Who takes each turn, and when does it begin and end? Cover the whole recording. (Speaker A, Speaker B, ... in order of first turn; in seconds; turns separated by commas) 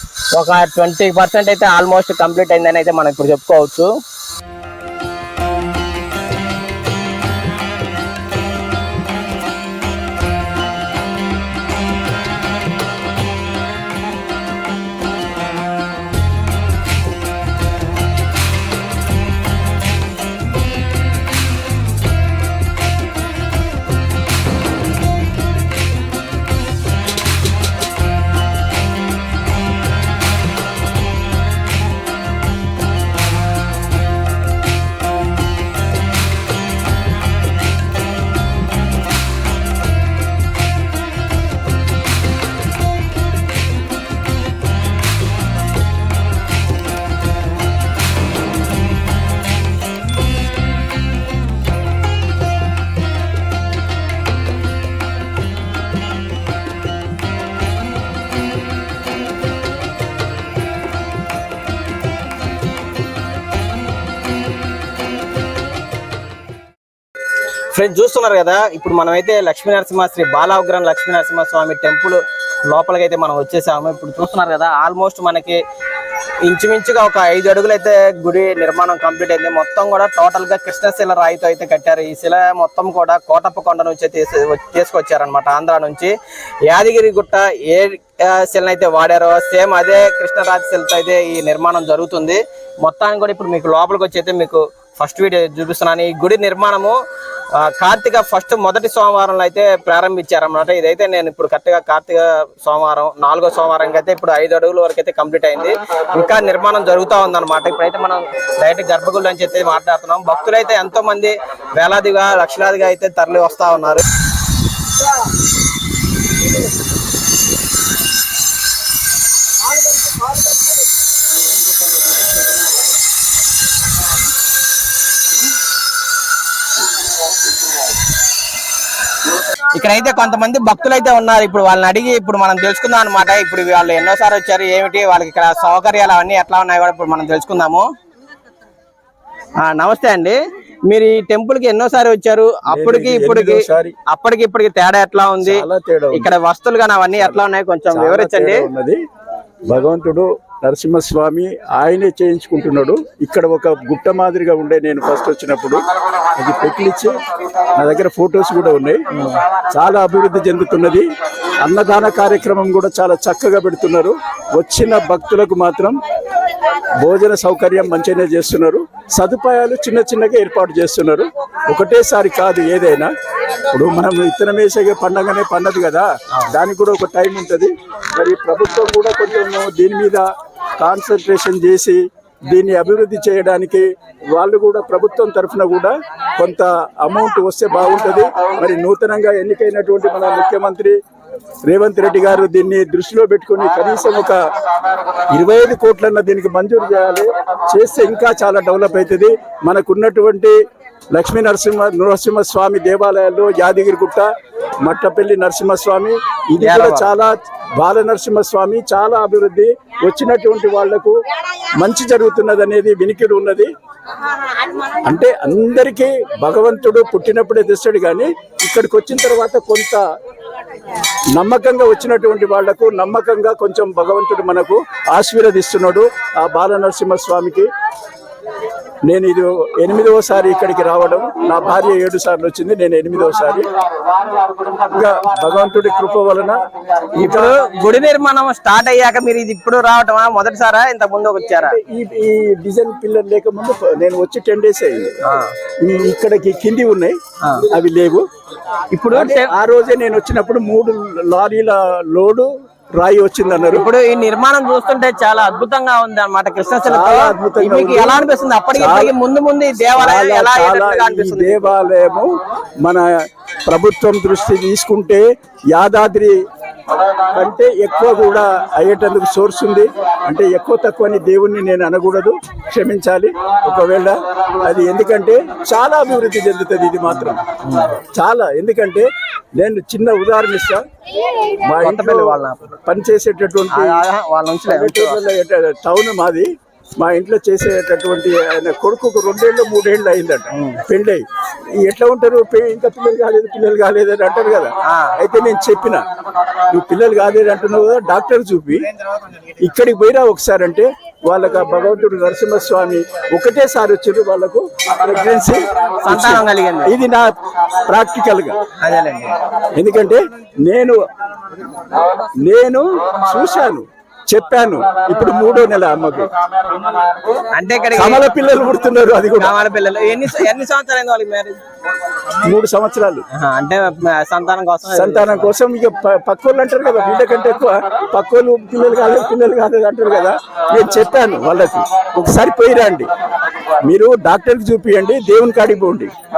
Speaker A: 0.3-3.9, Speaker A: 67.7-75.6, Speaker A: 76.4-86.1, Speaker A: 86.7-97.0, Speaker A: 97.5-114.0, Speaker A: 129.5-137.9, Speaker A: 139.6-148.7, Speaker B: 142.7-144.0, Speaker B: 145.4-146.3, Speaker B: 147.1-149.0, Speaker B: 149.7-157.1, Speaker B: 157.7-159.0, Speaker A: 159.1-159.4, Speaker B: 159.7-161.1, Speaker B: 161.6-166.0, Speaker B: 167.0-173.1, Speaker B: 173.7-180.2, Speaker B: 180.8-191.0, Speaker B: 191.6-194.4, Speaker B: 195.3-200.6, Speaker B: 201.1-204.3, Speaker B: 204.8-211.2, Speaker A: 206.6-207.1, Speaker B: 211.8-213.7, Speaker B: 215.0-220.0, Speaker B: 221.3-227.7, Speaker B: 229.1-233.7, Speaker B: 234.6-236.6, Speaker A: 237.1-241.8, Speaker B: 237.2-237.6, Speaker B: 241.6-245.1, Speaker A: 245.2-245.5, Speaker B: 245.8-248.2, Speaker A: 248.9-249.5, Speaker B: 249.1-253.9, Speaker A: 253.7-261.7, Speaker B: 256.9-258.2, Speaker B: 258.7-259.1, Speaker B: 259.9-262.3, Speaker B: 263.7-266.3, Speaker B: 267.3-277.4, Speaker A: 277.1-278.0, Speaker B: 278.1-279.1, Speaker B: 279.6-280.8, Speaker B: 281.5-284.0, Speaker A: 281.8-282.6, Speaker A: 283.7-285.2, Speaker B: 284.7-291.2, Speaker A: 290.5-290.8, Speaker B: 291.8-296.0, Speaker A: 294.8-295.2, Speaker B: 296.7-298.9, Speaker B: 299.6-307.3, Speaker A: 306.0-306.9, Speaker B: 307.9-308.6, Speaker A: 308.8-309.3, Speaker B: 309.7-311.0, Speaker B: 312.4-316.3, Speaker A: 317.5-318.2, Speaker B: 317.9-319.5, Speaker A: 319.3-321.6, Speaker B: 322.4-323.2, Speaker A: 323.3-325.5, Speaker B: 324.9-333.1, Speaker B: 333.8-336.1